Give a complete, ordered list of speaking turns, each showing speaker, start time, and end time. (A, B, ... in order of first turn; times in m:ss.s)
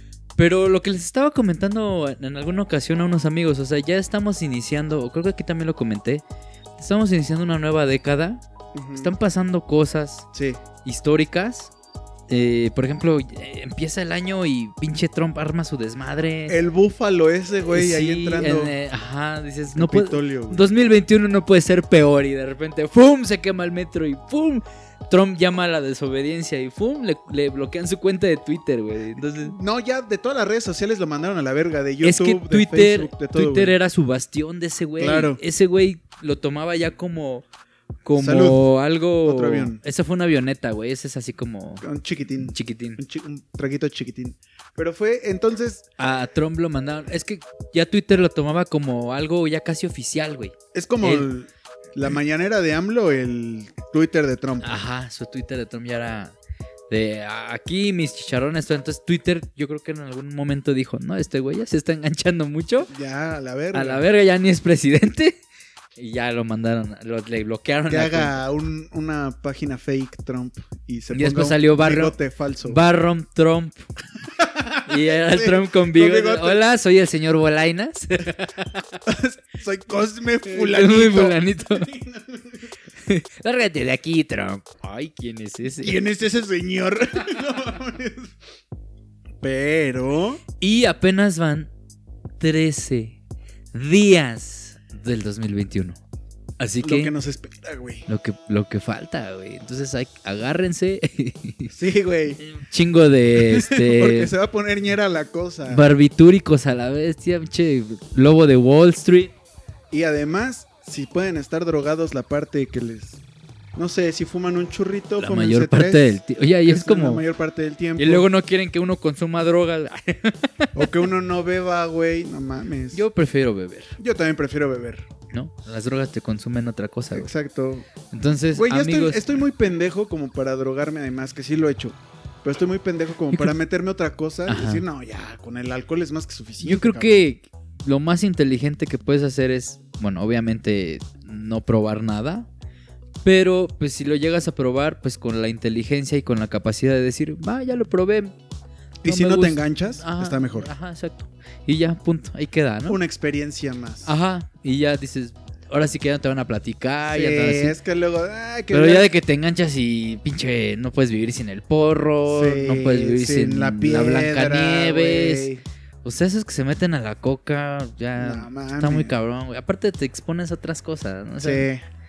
0:00.4-0:06.2 A
0:06.8-0:08.4 A
0:08.7-0:09.1 B
0:09.0-0:10.3 A
0:10.3-0:10.6 B
0:10.8-0:11.7 A
0:12.3-0:16.6 A
0:16.5-0:18.7 B
0:17.7-0:29.5 A
0:19.7-0:20.7 B
0:29.4-0:33.7 B
0:32.0-0:37.4 A
0:35.0-0:35.4 B
0:38.0-0:41.8 A
0:38.2-0:38.6 B
0:39.2-0:39.8 B
0:41.8-0:45.8 B
0:42.4-0:43.0 A
0:46.0-0:51.3 A
0:50.7-0:54.7 B
0:54.6-0:56.3 A
0:56.9-1:02.9 A
1:02.9-1:04.0 B
1:03.7-1:05.4 A
1:06.0-1:08.4 A
1:07.9-1:12.8 B
1:11.1-1:13.8 A
1:14.4-1:16.6 B
1:14.8-1:18.8 A
1:19.0-1:22.6 B
1:20.4-1:21.9 A
1:23.0-1:26.0 A
1:25.8-1:28.3 B
1:29.4-1:30.4 B
1:30.6-1:31.7 A
1:32.4-1:33.2 A
1:33.7-1:36.0 A
1:36.6-1:37.1 A
1:36.8-1:38.0 B
1:38.1-1:41.7 A
1:41.7-1:42.4 B
1:42.4-1:44.3 A
1:43.4-1:45.8 B
1:45.6-1:49.3 A
1:49.9-1:53.2 B
1:53.8-1:58.3 B
1:55.2-1:57.2 A
1:58.0-2:00.8 A
2:00.7-2:03.0 B
2:02.9-2:04.0 A
2:04.0-2:05.0 B
2:05.3-2:07.3 A
2:07.1-2:07.9 B
2:08.1-2:09.2 A
2:08.5-2:17.1 B
2:14.4-2:14.8 A
2:16.6-2:22.5 A
2:23.2-2:28.3 A
2:29.0-2:30.7 B
2:29.0-2:33.0 A
2:32.9-2:34.1 B
2:34.0-2:37.8 A
2:37.1-2:39.1 B
2:38.7-2:45.5 A
2:42.3-2:45.6 B
2:46.0-2:51.7 A
2:48.2-2:49.1 B
2:51.4-2:51.8 B